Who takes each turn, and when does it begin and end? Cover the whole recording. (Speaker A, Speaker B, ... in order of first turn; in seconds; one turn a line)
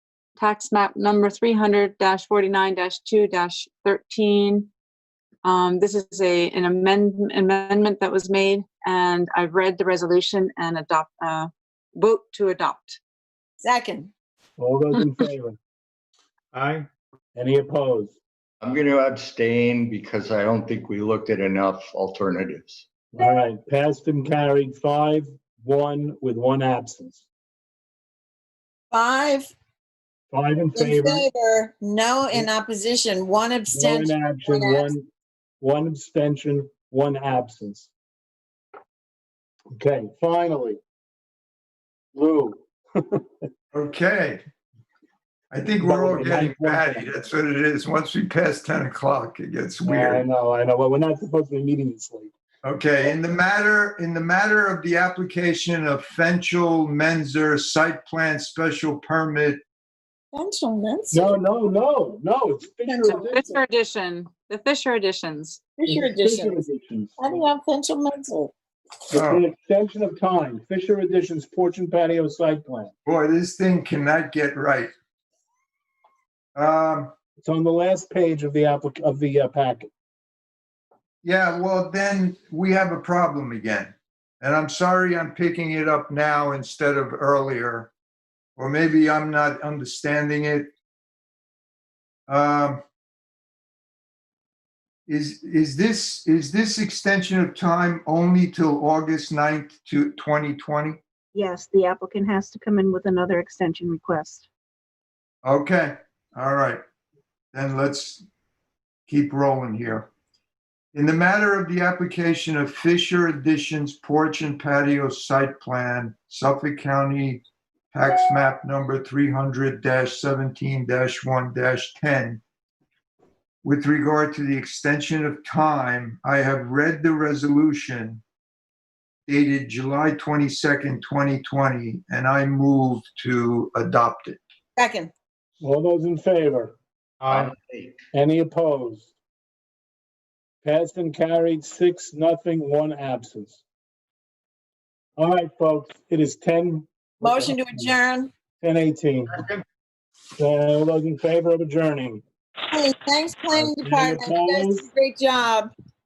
Speaker A: 0.4-4.7
Speaker A: 5.4-13.0
Speaker B: 13.6-14.1
Speaker C: 14.6-15.6
Speaker D: 16.5-16.9
Speaker C: 17.3-18.1
Speaker D: 18.6-22.9
Speaker C: 23.1-27.2
Speaker B: 28.9-29.5
Speaker C: 30.3-31.2
Speaker B: 30.7-34.9
Speaker C: 33.7-35.1
Speaker C: 35.6-37.9
Speaker C: 39.7-40.8
Speaker C: 42.1-43.4
Speaker E: 43.7-44.4
Speaker E: 45.5-50.2
Speaker C: 45.8-47.1
Speaker C: 49.8-52.3
Speaker E: 52.6-59.6
Speaker B: 60.3-61.4
Speaker C: 61.1-63.6
Speaker B: 62.9-63.2
Speaker A: 63.1-65.6
Speaker B: 65.8-66.6
Speaker C: 65.8-67.2
Speaker B: 67.2-68.5
Speaker C: 69.1-72.9
Speaker E: 69.1-69.4
Speaker E: 73.0-74.9
Speaker E: 76.5-77.1
Speaker C: 77.4-79.9
Speaker E: 81.2-87.9
Speaker E: 88.6-90.7
Speaker E: 92.3-92.8
Speaker E: 95.1-101.0
Speaker F: 101.3-104.5
Speaker E: 105.4-106.8
Speaker E: 107.5-108.2
Speaker E: 109.1-110.1
Speaker E: 110.9-117.4
Speaker E: 117.9-122.4
Speaker E: 123.6-128.2
Speaker E: 129.3-134.4
Speaker B: 134.8-135.1
Speaker C: 135.6-136.7
Speaker D: 137.2-138.0
Speaker C: 138.1-139.1
Speaker C: 140.6-143.6
Speaker C: 145.2-147.9
Speaker B: 147.2-148.3
Speaker C: 148.6-149.4
Speaker C: 150.4-152.2
Speaker B: 152.7-155.7
Speaker C: 153.5-154.8